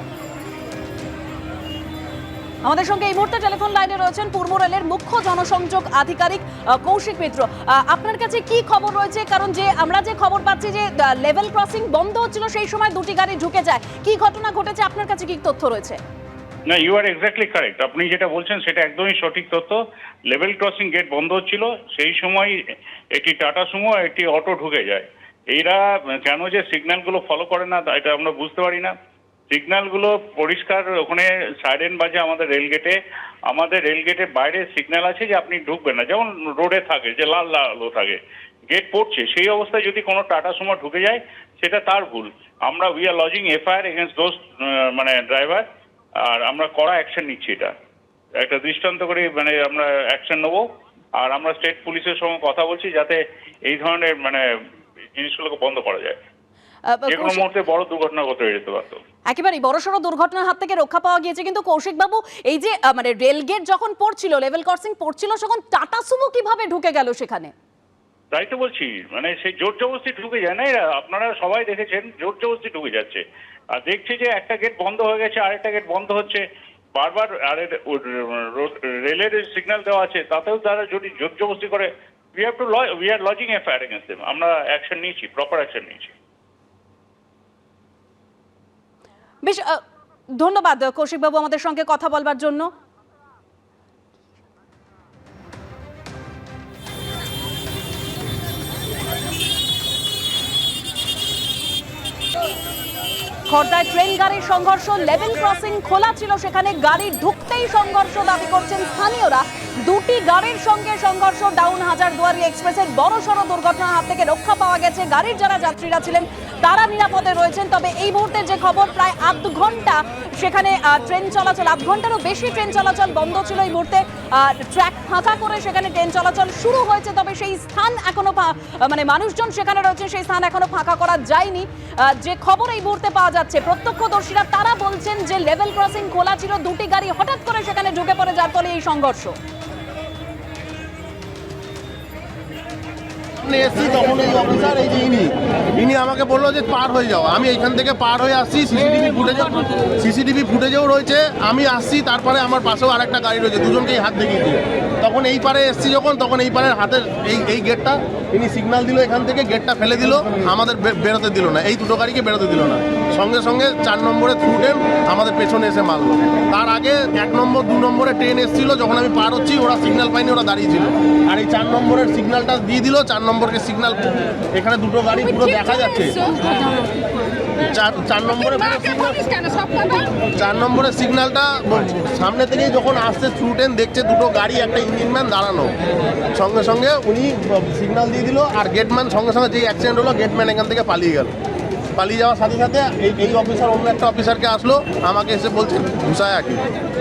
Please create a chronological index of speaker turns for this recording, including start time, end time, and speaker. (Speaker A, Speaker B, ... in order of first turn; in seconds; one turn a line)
Speaker A: 2.6-16.0
Speaker B: 16.7-19.8
Speaker B: 20.3-22.6
Speaker B: 23.1-28.9
Speaker B: 29.5-33.0
Speaker B: 33.5-45.7
Speaker B: 46.2-47.7
Speaker B: 48.4-50.6
Speaker B: 51.2-54.4
Speaker B: 55.1-56.2
Speaker A: 56.9-57.5
Speaker B: 57.1-59.0
Speaker A: 59.3-67.5
Speaker B: 68.3-73.2
Speaker B: 73.8-76.4
Speaker B: 77.0-86.1
Speaker A: 89.4-89.8
Speaker A: 90.3-92.7
Speaker A: 103.5-139.3
Speaker C: 143.4-176.3
Speaker C: 177.6-185.7
Speaker C: 186.3-191.3
Speaker C: 191.9-196.7